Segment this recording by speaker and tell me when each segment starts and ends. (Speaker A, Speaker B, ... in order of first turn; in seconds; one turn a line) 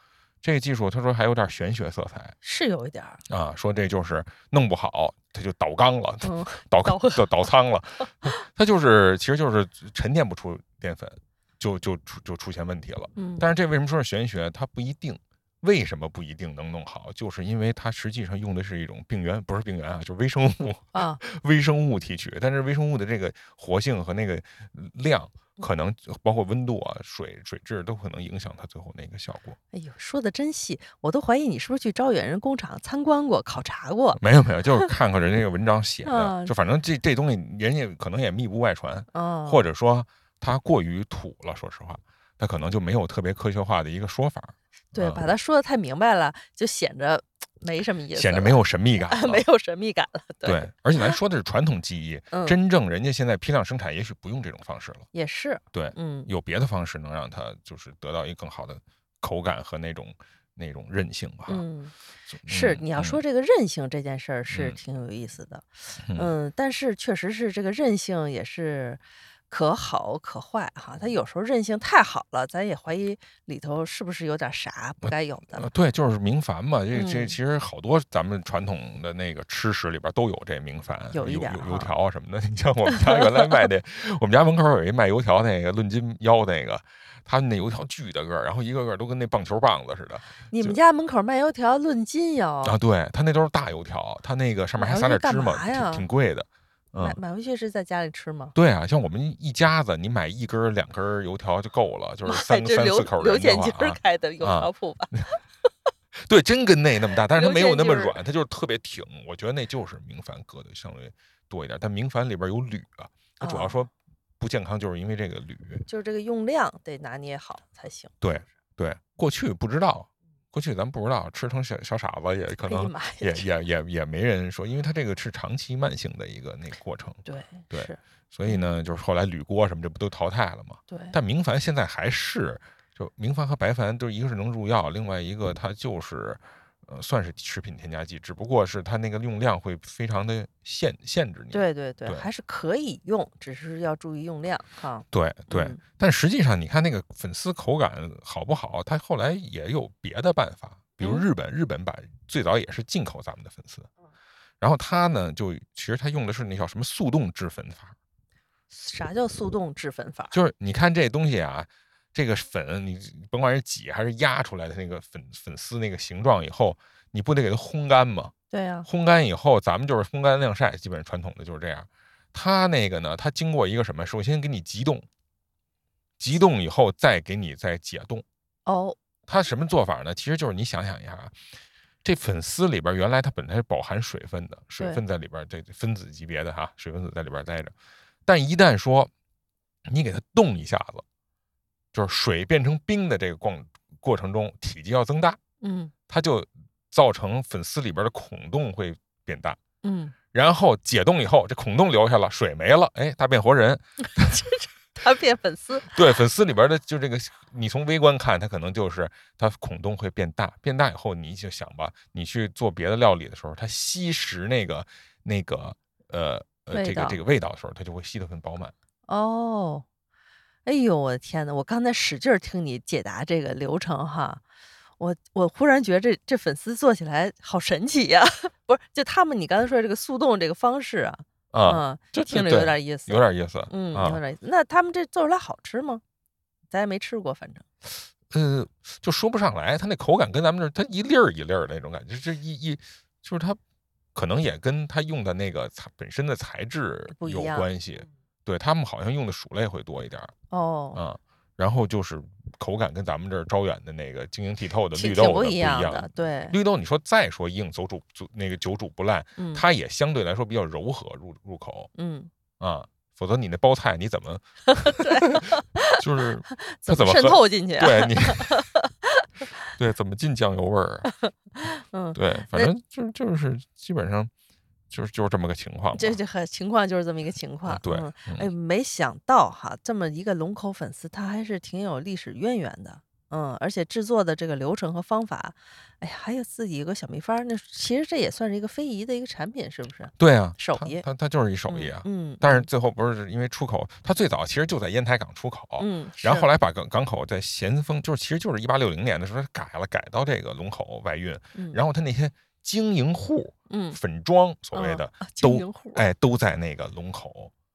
Speaker A: 0.4-2.4
Speaker B: 2.4-3.2
Speaker A: 3.3-29.6
Speaker B: 6.2-7.5
Speaker B: 8.0-8.4
Speaker B: 13.2-13.5
Speaker B: 20.9-21.2
Speaker B: 29.7-34.2
Speaker A: 34.2-45.2
Speaker B: 36.0-36.5
Speaker B: 39.1-39.7
Speaker B: 44.9-51.2
Speaker A: 48.1-49.5
Speaker A: 50.5-55.1
Speaker B: 52.3-52.6
Speaker B: 55.1-56.3
Speaker A: 55.7-61.6
Speaker B: 61.5-61.9
Speaker A: 62.3-63.2
Speaker B: 62.5-75.7
Speaker A: 64.5-64.8
Speaker A: 66.1-66.3
Speaker A: 75.0-90.8
Speaker B: 76.9-77.4
Speaker B: 81.1-81.9
Speaker B: 90.5-92.8
Speaker A: 92.6-97.2
Speaker B: 94.8-96.1
Speaker B: 97.0-98.5
Speaker A: 98.5-105.3
Speaker B: 102.3-105.4
Speaker A: 106.2-115.8
Speaker B: 107.3-108.2
Speaker B: 113.4-113.8
Speaker B: 115.9-118.1
Speaker A: 118.2-142.3
Speaker B: 122.6-123.5
Speaker B: 127.2-128.8
Speaker B: 130.9-131.2
Speaker B: 141.5-145.8
Speaker A: 145.1-153.9
Speaker B: 151.0-151.3
Speaker A: 154.6-157.9
Speaker B: 158.7-160.4
Speaker A: 160.3-168.3
Speaker B: 168.5-168.9
Speaker A: 168.9-175.1
Speaker A: 176.2-178.2
Speaker B: 178.7-179.0
Speaker A: 179.3-181.4
Speaker A: 182.0-187.7
Speaker A: 188.3-189.1
Speaker A: 189.9-191.1
Speaker A: 191.9-195.4
Speaker B: 195.6-195.9
Speaker A: 196.1-199.6
Speaker B: 199.8-200.1
Speaker A: 200.3-204.5
Speaker B: 204.2-206.0
Speaker A: 205.9-218.7
Speaker B: 216.7-217.2
Speaker B: 219.1-219.8
Speaker B: 220.7-224.4
Speaker B: 225.0-236.0
Speaker A: 231.5-234.2
Speaker B: 236.7-237.7
Speaker A: 238.3-243.6
Speaker A: 244.2-250.3
Speaker B: 247.2-247.7
Speaker B: 250.5-251.0
Speaker A: 250.9-261.9
Speaker B: 254.9-256.6
Speaker B: 259.4-259.6
Speaker B: 261.9-262.3
Speaker A: 262.6-268.6
Speaker B: 264.8-269.3
Speaker A: 269.7-271.1
Speaker B: 271.2-272.7
Speaker A: 272.1-274.3
Speaker A: 274.9-276.2
Speaker B: 275.9-291.0
Speaker A: 277.7-278.5
Speaker A: 290.2-307.5
Speaker B: 291.7-292.7
Speaker B: 295.8-296.5
Speaker B: 301.6-301.8
Speaker B: 303.7-304.0
Speaker B: 304.7-306.0